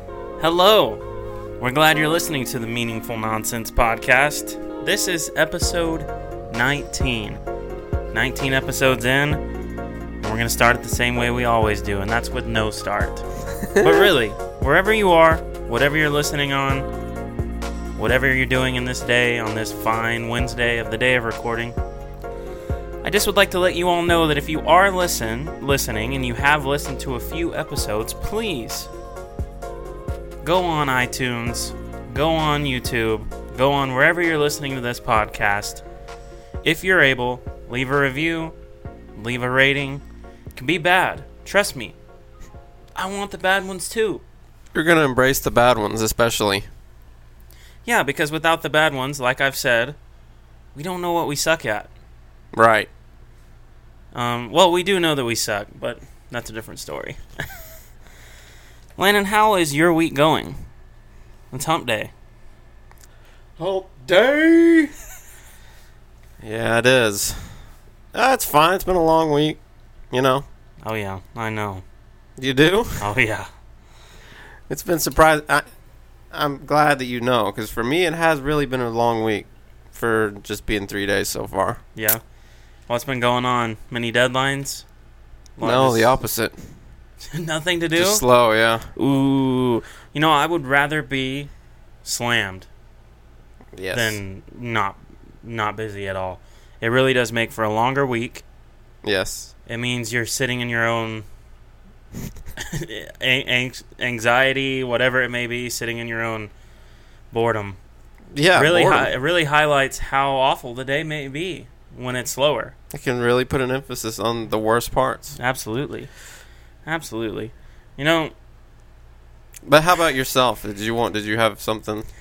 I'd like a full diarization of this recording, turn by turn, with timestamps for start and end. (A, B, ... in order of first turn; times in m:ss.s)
0:00.4-0:01.0 A
0:01.6-0:07.4 A
0:08.1-0:09.4 A
0:10.2-0:13.2 A
0:13.6-0:14.1 B
0:13.8-0:16.9 A
0:18.0-0:21.8 A
0:23.0-0:28.9 A
0:30.4-0:35.8 A
0:36.6-0:38.6 A
0:39.2-0:40.0 A
0:40.6-0:42.0 A
0:43.0-0:44.2 A
0:44.7-0:46.7 B
0:47.8-0:50.0 A
0:50.8-0:51.9 A
0:52.5-0:52.9 B
0:54.1-0:57.5 A
0:59.0-1:00.7 A
1:01.5-1:02.1 A
1:03.6-1:04.9 B
1:06.4-1:09.6 B
1:10.1-1:10.5 B
1:10.8-1:11.8 A
1:12.4-1:13.1 B
1:13.0-1:13.5 A
1:14.7-1:15.6 B
1:16.3-1:21.8 B
1:22.9-1:24.8 A
1:25.6-1:26.2 A
1:25.6-1:26.7 B
1:27.3-1:28.2 A
1:28.0-1:28.9 B
1:29.0-1:31.5 A
1:32.0-1:32.7 A
1:33.8-1:34.2 B
1:33.9-1:38.4 A
1:39.0-1:39.5 B
1:39.7-1:41.2 A
1:42.6-1:46.5 A
1:47.3-1:47.8 A
1:48.4-1:49.1 B
1:48.5-1:52.8 A
1:52.9-1:55.4 B
1:55.4-1:56.1 A
1:56.8-1:58.3 A
1:59.7-2:02.1 B